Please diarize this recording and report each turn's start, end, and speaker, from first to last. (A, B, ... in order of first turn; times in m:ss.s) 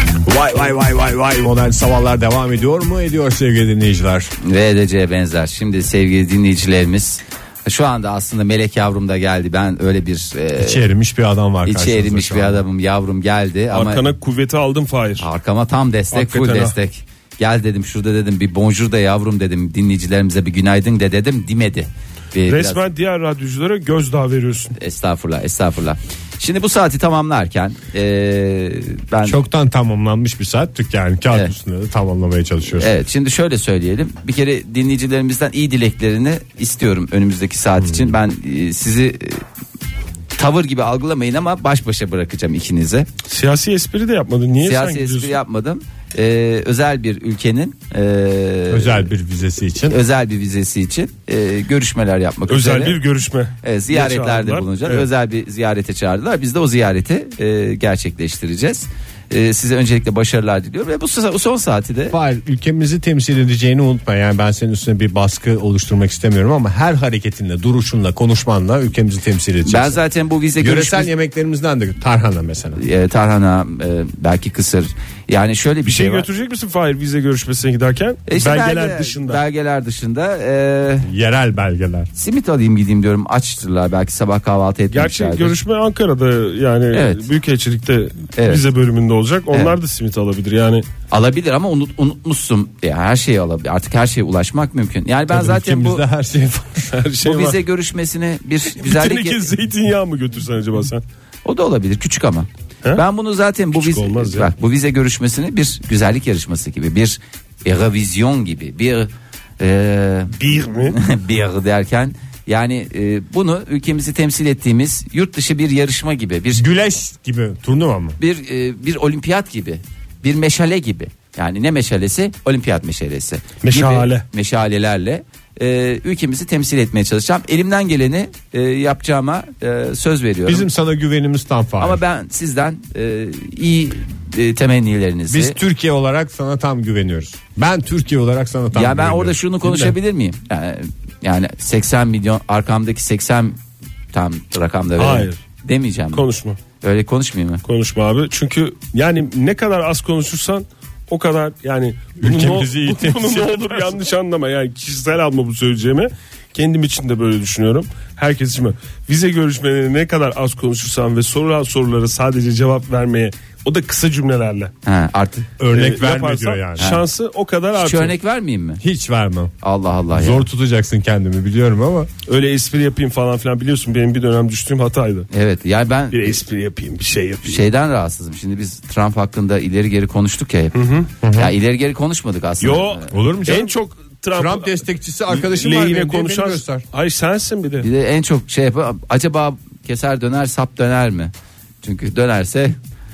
0:00.2-0:04.3 A
0:04.4-0:10.8 B
0:10.6-0:12.6 A
0:11.6-0:14.1 B
0:13.7-0:15.3 C
0:15.2-0:22.8 B
0:16.1-0:16.8 C
0:22.4-0:24.8 C
0:24.8-0:29.4 B
0:29.2-0:32.9 A
0:32.7-0:39.4 B
0:37.8-0:38.2 A
0:40.4-0:43.1 B
0:43.2-0:45.3 C
0:44.6-0:49.1 B
0:48.7-0:50.0 A
0:49.9-0:53.0 B
0:52.5-0:55.1 C
0:53.6-1:02.2 B
1:02.1-1:10.0 A
1:09.7-1:11.1 B
1:10.6-1:12.8 A
1:12.8-1:16.3 B
1:15.8-1:19.4 C
1:18.3-1:21.1 B
1:21.0-1:22.1 A
1:22.1-1:25.6 B
1:24.9-1:30.8 C
1:26.9-1:27.3 B
1:28.4-1:28.6 B
1:29.5-1:29.8 B
1:31.1-1:36.0 B
1:35.3-1:37.0 A
1:36.9-1:37.6 C
1:37.2-1:39.5 B
1:38.8-1:41.0 C
1:41.4-1:50.4 B
1:43.7-1:44.5 C
1:50.4-1:51.0 C
1:50.9-1:56.6 B
1:56.5-1:58.2 A
1:58.2-2:10.7 B
2:03.6-2:04.2 C
2:10.4-2:12.0 A
2:11.8-2:15.6 B
2:15.3-2:19.9 A
2:18.7-2:23.6 B
2:24.1-2:26.2 B
2:25.0-2:25.4 C
2:26.1-2:26.6 C
2:26.8-2:27.6 B
2:27.6-2:44.7 C
2:32.2-2:33.9 A
2:44.8-2:45.5 B
2:45.6-2:46.9 A
2:45.7-2:48.2 C
2:46.8-2:47.0 B
2:47.7-2:48.8 B
2:48.8-2:49.5 A
2:49.6-2:50.5 B
2:50.1-2:52.1 A
2:52.3-2:55.3 C
2:55.3-2:56.4 B
2:56.1-2:57.6 C
2:57.4-3:03.1 B
3:00.7-3:01.1 C
3:01.2-3:01.5 A
3:02.6-3:04.8 C
3:03.1-3:03.7 A
3:04.3-3:06.8 A
3:05.3-3:07.9 C
3:07.8-3:12.8 B